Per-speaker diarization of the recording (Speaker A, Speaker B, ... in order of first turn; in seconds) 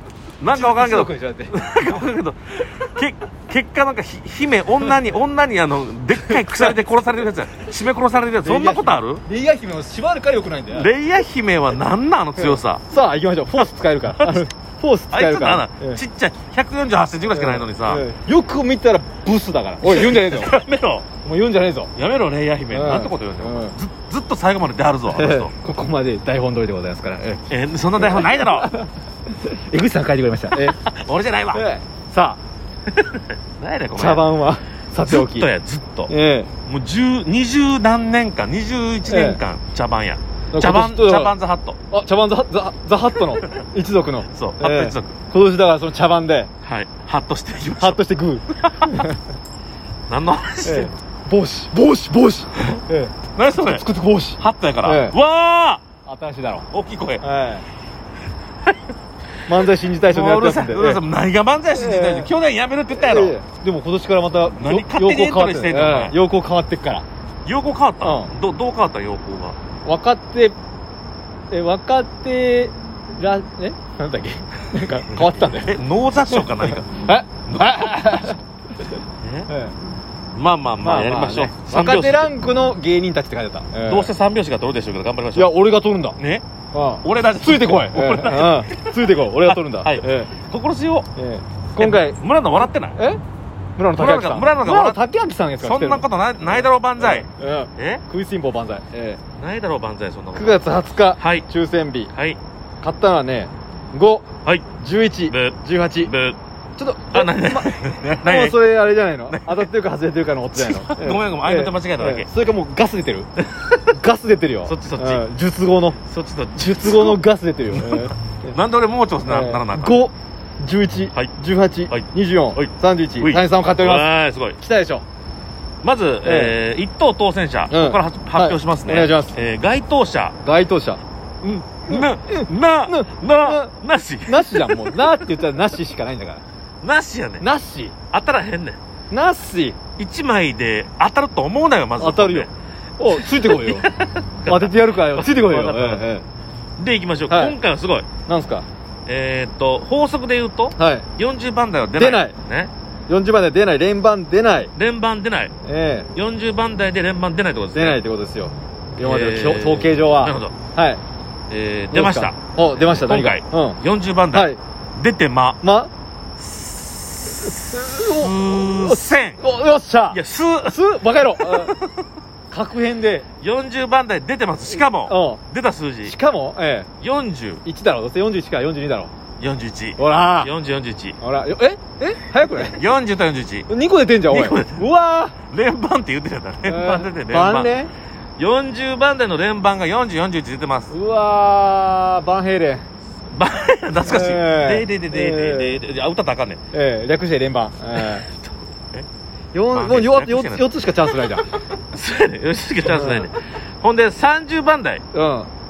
Speaker A: 0.4-9.2, 10.7-12.8, 14.2-14.5, 15.1-18.1, 19.8-21.1, 22.0-25.5, 27.5-28.7, 30.7-31.6, 32.9-34.3, 35.0-36.1, 36.7-41.8, 44.3-45.2, 46.6-48.0, 48.6-49.0, 50.1-51.0, 53.4-53.8, 54.4-55.8, 56.7-57.2, 59.6-63.4, 64.6-66.2, 67.5-69.6, 75.1-77.0, 77.5-78.4, 79.2-79.5, 80.3-82.3, 83.9-85.5, 86.2-86.5, 87.0-89.0, 89.5-91.1, 91.8-93.0, 93.9-95.0, 95.6-98.0, 99.4-101.5, 102.1-102.4, 105.3-106.4, 107.1-108.6, 109.3-109.7, 110.5-112.3, 113.5-113.9, 114.7-115.2, 116.1-117.2, 117.7-120.0, 121.9-124.6, 125.8-130.4, 131.8-135.1, 136.8-137.4, 138.1-138.8, 140.0-142.5, 143.1-146.0, 146.8-148.1, 149.1-152.7, 154.8-155.5, 156.1-158.0, 159.0-160.6, 161.5-165.6, 166.6-169.4, 170.1-172.0, 173.4-176.2, 177.0-177.6, 179.4-181.2, 182.5-183.7, 184.3-184.8, 185.5-187.7, 188.4-190.9, 193.3-196.6, 198.0-199.1, 199.7-200.7, 201.6-205.0
Speaker B: 0.5-1.9, 6.2-6.8, 8.4-10.9, 12.4-16.0, 17.3-20.6, 21.2-21.9, 22.7-23.8, 25.1-27.4, 28.0-30.8, 31.5-32.4, 34.0-35.5, 36.1-36.5, 39.0-39.4, 40.5-41.4, 41.9-46.5, 47.8-49.2, 50.6-55.2, 56.0-56.7, 57.2-57.6, 59.5-61.0, 61.7-62.3, 62.9-67.1, 68.0-68.3, 69.8-70.6, 71.5-75.8, 76.3-79.0, 79.5-79.8, 80.8-84.1, 85.4-86.2, 86.7-90.3, 91.2-92.2, 93.0-93.2, 93.8-99.2, 100.3-102.1, 102.8-104.3, 104.8-106.1, 106.8-113.3, 113.9-116.0, 116.6-118.6, 119.3-124.1, 124.6-125.0, 126.2-126.6, 127.7-129.4, 130.4-133.7, 134.3-136.4, 137.4-138.0, 139.1-139.8, 142.0-143.9, 144.5-146.3, 147.3-147.6, 148.3-148.7, 150.8-151.1, 152.0-152.3, 153.1-154.7, 155.6-156.1, 157.7-161.0, 161.9-163.8, 164.3-164.6, 165.6-165.9, 167.4-171.8, 172.5-173.3, 174.7-175.4, 176.1-176.9, 177.7-179.1, 180.0-180.5, 181.2-182.8, 183.7-185.4, 186.7-187.9, 190.9-192.9, 194.0-195.8, 196.7-198.3, 199.5-201.5, 202.8-203.3, 205.1-205.5